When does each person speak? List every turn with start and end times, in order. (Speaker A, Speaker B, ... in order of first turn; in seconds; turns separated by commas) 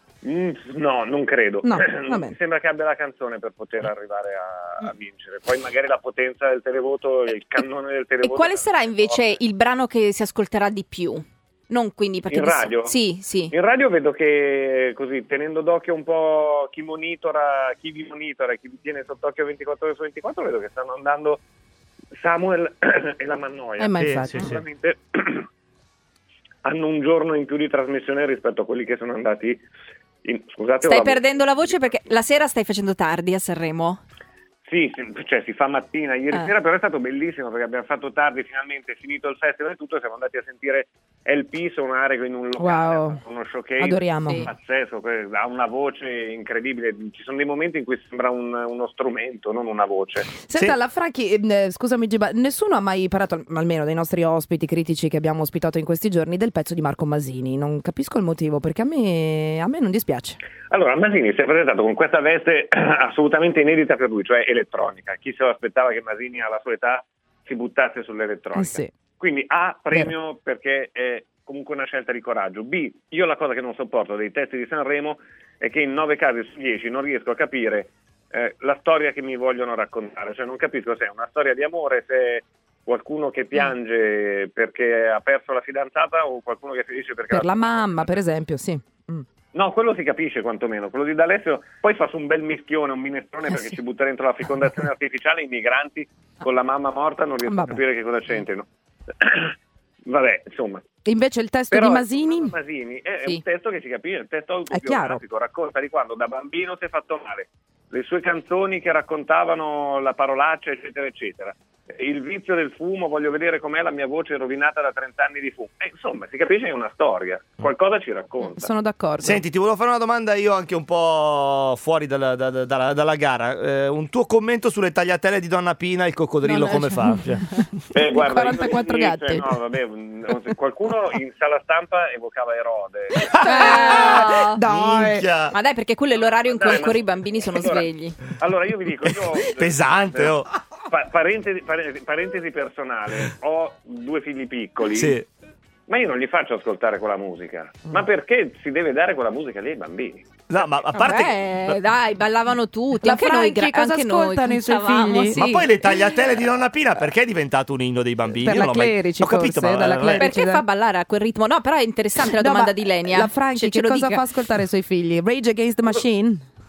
Speaker A: 0.2-9.4, Speaker B: 1.6-2.3, Speaker C: 8.2-13.5, Speaker A: 12.3-13.0, Speaker A: 13.5-21.4, Speaker A: 22.2-25.5, Speaker B: 23.8-24.5, Speaker D: 24.0-24.6, Speaker A: 26.6-29.6, Speaker A: 30.2-31.9, Speaker C: 30.8-34.0, Speaker A: 34.7-50.3, Speaker B: 42.6-43.2, Speaker B: 43.8-44.5, Speaker B: 50.4-60.4, Speaker A: 60.7-88.2, Speaker B: 68.5-68.9, Speaker B: 87.3-89.2, Speaker A: 89.5-98.7, Speaker B: 97.5-97.8, Speaker A: 99.2-99.5, Speaker A: 100.0-100.8, Speaker B: 101.0-102.5, Speaker A: 101.7-118.7, Speaker B: 104.7-105.2, Speaker B: 118.5-119.4, Speaker D: 119.2-127.7, Speaker B: 126.4-127.6, Speaker A: 127.9-133.8, Speaker B: 128.1-129.6, Speaker D: 133.3-135.6, Speaker B: 133.4-135.3, Speaker C: 133.4-134.6, Speaker C: 135.5-138.2, Speaker A: 136.1-145.2, Speaker D: 139.1-140.5, Speaker D: 144.8-145.3, Speaker A: 145.9-150.3, Speaker D: 150.5-151.8, Speaker C: 150.9-156.0, Speaker B: 153.0-155.4, Speaker D: 155.3-160.3, Speaker B: 158.3-160.6, Speaker C: 160.1-164.2, Speaker B: 162.3-166.4